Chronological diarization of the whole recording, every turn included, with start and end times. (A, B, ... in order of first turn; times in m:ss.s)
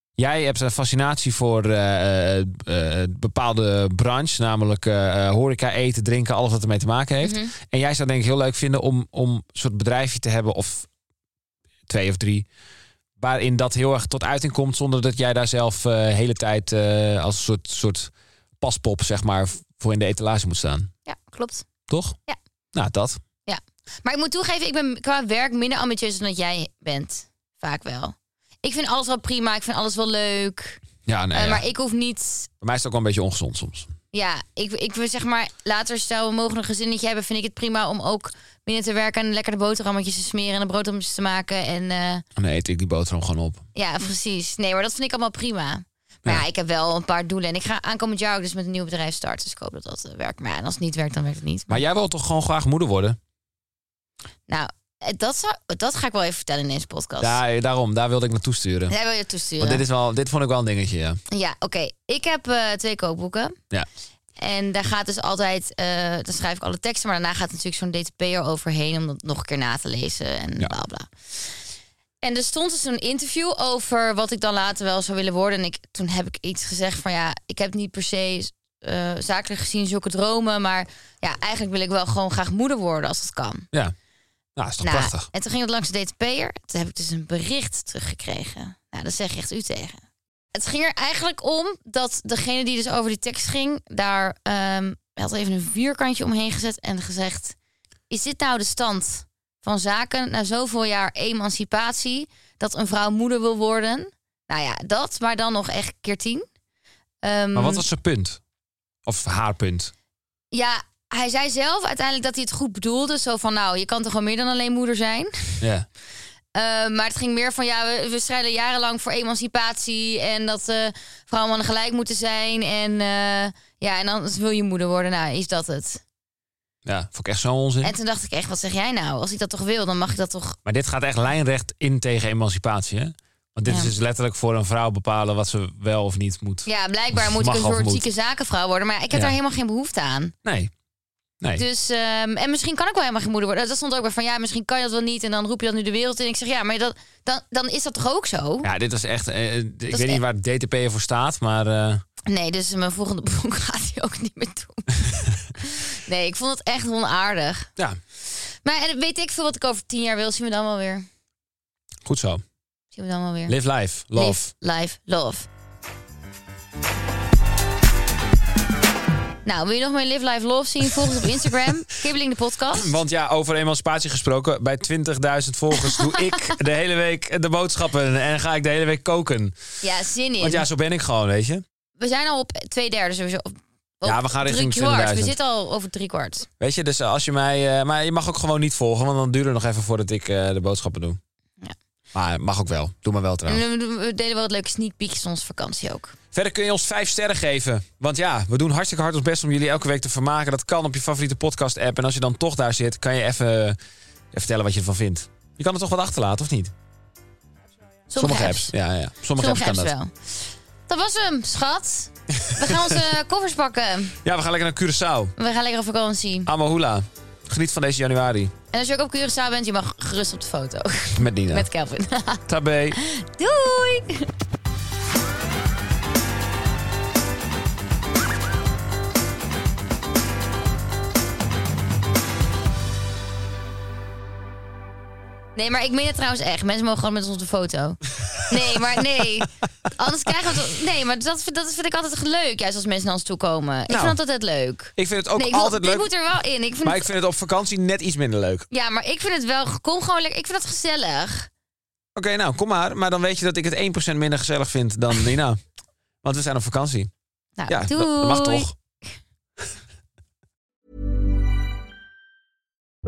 0:00.2-0:10.9 A
0:07.2-0:07.5 B
0:11.9-0:12.5 A
0:13.2-0:20.9 A
0:21.0-0:21.6 B
0:21.9-0:22.2 A
0:22.7-0:23.2 A
0:23.4-0:30.8 B
0:31.0-0:31.6 A
0:31.3-0:32.5 B
0:32.6-0:33.9 A
0:34.1-0:42.2 B
0:42.4-0:43.6 A
0:43.7-0:51.8 B
0:51.7-0:53.2 A
0:54.5-0:57.4 B
0:57.2-0:58.9 A
0:58.9-0:59.8 B
0:59.6-1:01.2 A
1:01.3-1:03.5 B
1:04.4-1:11.6 B
1:12.2-1:23.7 B
1:24.6-1:25.3 A
1:24.8-1:30.0 B
1:30.5-1:37.6 B
1:38.1-1:46.4 B
1:47.2-1:47.8 B
1:47.5-1:48.4 A
1:49.0-1:49.9 A
1:50.5-1:55.6 B
1:55.6-1:55.8 A
1:56.5-2:06.0 B
2:06.8-2:07.9 A
2:07.8-2:10.6 B
2:10.6-2:18.1 A
2:13.7-2:13.9 B
2:16.6-2:20.3 B
2:20.4-2:20.7 A
2:21.6-2:28.7 B
2:28.6-2:32.0 A
2:29.9-2:30.2 B
2:32.3-2:37.7 B
2:38.2-2:41.1 B
2:42.0-2:42.4 A
2:42.9-2:43.6 B
2:43.5-2:44.5 A
2:44.1-2:45.5 B
2:49.4-2:52.9 B
2:52.8-2:59.6 A
2:55.7-2:56.5 B
2:59.8-3:00.6 B
3:00.4-3:01.6 A
3:02.0-3:06.5 B
3:04.0-3:05.4 A
3:06.6-3:11.2 A
3:12.1-3:13.6 A
3:13.5-3:16.1 B
3:16.3-3:23.8 A
3:24.3-3:26.7 A
3:28.1-3:28.7 B
3:28.1-3:29.9 A
3:29.3-3:34.2 B
3:32.4-3:33.0 A
3:34.2-3:35.3 A
3:35.4-3:36.5 B
3:36.4-3:38.5 A
3:38.7-3:44.3 B
3:41.2-3:41.7 A
3:42.5-3:43.0 A
3:55.6-4:07.1 B
3:58.2-3:59.2 A
4:03.9-4:04.2 A
4:05.0-4:06.1 A
4:06.8-4:08.7 A
4:08.7-4:11.5 B
4:12.2-4:15.6 A
4:16.2-4:17.1 A
4:17.6-4:18.7 B
4:17.7-4:18.7 A